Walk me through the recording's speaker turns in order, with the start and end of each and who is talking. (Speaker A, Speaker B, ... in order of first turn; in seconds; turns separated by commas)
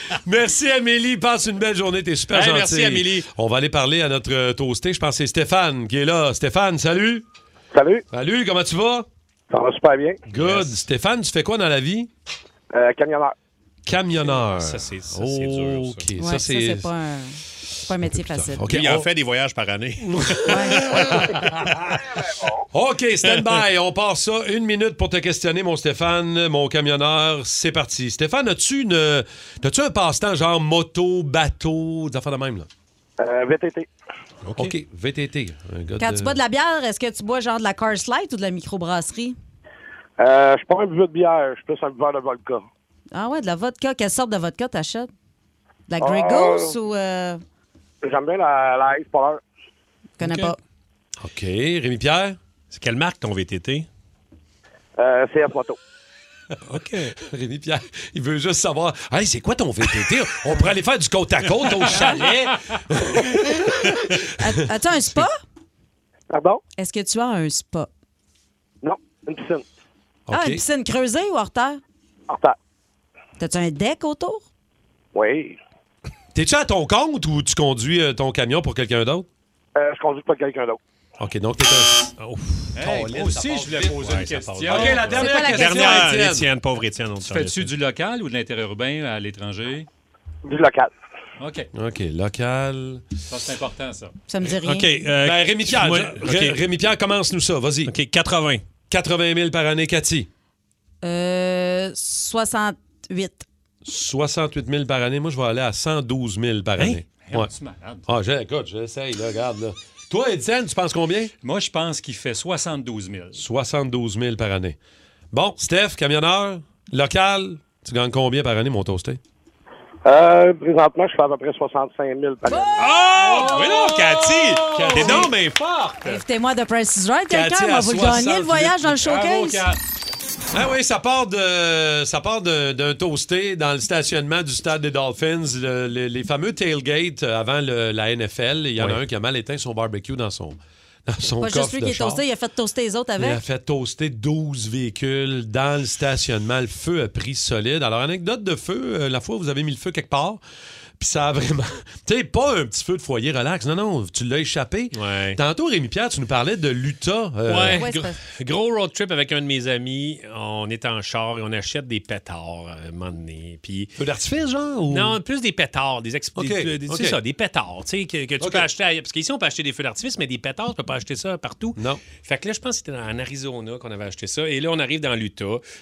Speaker A: 0.2-7.2, Speaker B: 2.3-3.3, Speaker C: 7.7-8.0, Speaker A: 8.1-9.1, Speaker C: 9.5-10.2, Speaker A: 10.3-12.1, Speaker B: 10.3-10.8, Speaker C: 12.7-13.3, Speaker A: 13.9-16.9, Speaker B: 14.1-16.1, Speaker D: 16.2-18.7, Speaker A: 18.1-19.1, Speaker B: 18.5-22.0, Speaker A: 20.0-21.9, Speaker D: 20.5-20.8, Speaker A: 22.7-32.7, Speaker B: 23.3-23.6, Speaker C: 33.2-33.9, Speaker B: 34.5-34.8, Speaker A: 34.6-36.4, Speaker D: 36.0-39.4, Speaker C: 40.2-42.6, Speaker D: 43.1-45.1, Speaker D: 45.9-47.4, Speaker C: 46.0-46.7, Speaker C: 48.0-49.4, Speaker D: 50.2-50.6, Speaker B: 50.2-50.5, Speaker A: 51.2-52.4, Speaker B: 52.7-53.9, Speaker C: 55.0-55.8, Speaker B: 56.7-57.1, Speaker A: 57.2-64.2, Speaker B: 61.6-62.4, Speaker D: 64.4-65.4, Speaker C: 66.3-66.6, Speaker D: 66.8-67.9, Speaker C: 68.8-69.6, Speaker A: 70.3-70.6, Speaker D: 70.3-71.8, Speaker D: 73.4-74.5, Speaker C: 75.2-75.6, Speaker A: 76.3-79.3, Speaker C: 79.8-80.8, Speaker A: 81.2-82.1, Speaker B: 82.2-87.7, Speaker E: 82.8-85.5, Speaker A: 82.9-86.5, Speaker D: 85.2-85.8, Speaker E: 87.2-89.9, Speaker C: 90.5-90.9, Speaker E: 91.4-91.7, Speaker A: 91.7-93.0, Speaker E: 93.3-94.1, Speaker D: 94.3-94.9, Speaker B: 94.5-96.6, Speaker A: 95.2-97.9, Speaker B: 97.8-98.6, Speaker A: 98.9-100.3, Speaker D: 101.0-103.5, Speaker A: 103.8-107.5, Speaker E: 107.1-108.1, Speaker A: 108.1-111.3, Speaker E: 111.4-113.4, Speaker A: 113.4-114.8, Speaker A: 115.3-119.2, Speaker C: 120.1-122.7, Speaker D: 122.5-122.9, Speaker B: 122.8-126.1, Speaker A: 123.2-125.3, Speaker D: 126.0-129.7, Speaker A: 127.3-128.8, Speaker E: 128.9-129.8, Speaker A: 130.5-142.2, Speaker B: 138.8-139.0, Speaker D: 141.4-143.4, Speaker A: 143.2-150.4, Speaker A: 151.0-157.8, Speaker B: 154.9-155.4, Speaker B: 157.5-163.9, Speaker D: 157.8-158.2, Speaker A: 164.0-165.2, Speaker B: 164.9-175.6, Speaker A: 166.4-167.2, Speaker A: 168.4-168.7, Speaker A: 171.8-172.1